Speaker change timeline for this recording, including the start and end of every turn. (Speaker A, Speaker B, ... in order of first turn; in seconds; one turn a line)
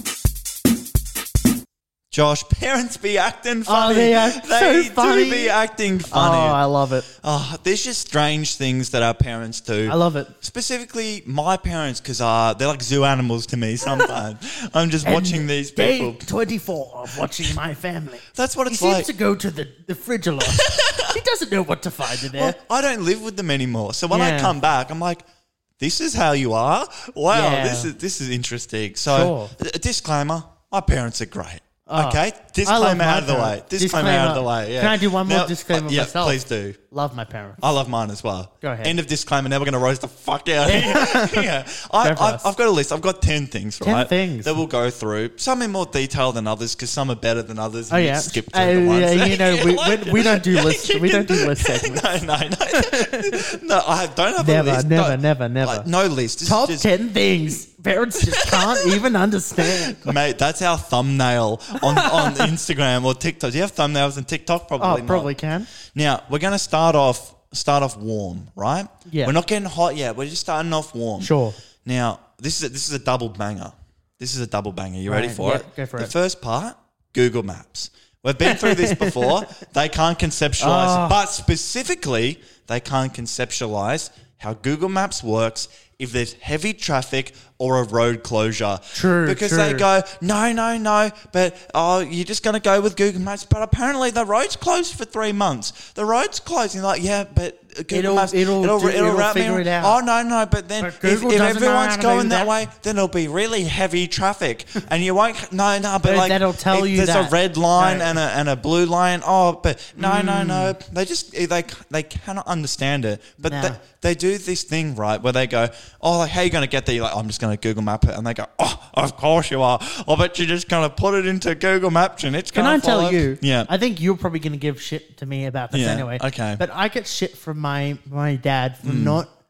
Speaker A: 2.1-6.6
Speaker B: 3.7-5.6
Speaker B: 6.1-7.1
Speaker A: 7.1-16.3
Speaker B: 9.9-10.3
Speaker B: 13.9-14.1
Speaker B: 15.0-22.6
Speaker A: 18.3-19.1
Speaker A: 20.5-21.2
Speaker A: 22.2-25.2
Speaker B: 24.1-24.6
Speaker A: 25.8-36.8
Speaker B: 27.3-27.9
Speaker B: 29.1-29.5
Speaker B: 31.9-37.6
Speaker A: 37.6-56.9
Speaker B: 38.6-39.0
Speaker B: 40.6-42.5
Speaker B: 43.8-44.6
Speaker B: 47.9-52.1
Speaker B: 52.7-53.5
Speaker B: 54.4-55.9
Speaker B: 56.4-60.1
Speaker A: 58.2-59.0
Speaker A: 59.6-65.3
Speaker B: 61.8-62.5
Speaker B: 64.8-65.7
Speaker A: 65.8-71.3
Speaker B: 69.1-69.3
Speaker B: 71.2-71.6
Speaker A: 71.8-123.7
Speaker B: 75.1-76.1
Speaker B: 78.4-79.5
Speaker B: 80.6-81.2
Speaker B: 88.9-89.9
Speaker B: 97.9-100.0
Speaker B: 100.8-102.5
Speaker B: 106.0-108.2
Speaker B: 110.0-110.8
Speaker B: 113.4-113.8
Speaker B: 122.5-129.3
Speaker A: 125.7-126.6
Speaker A: 128.8-129.2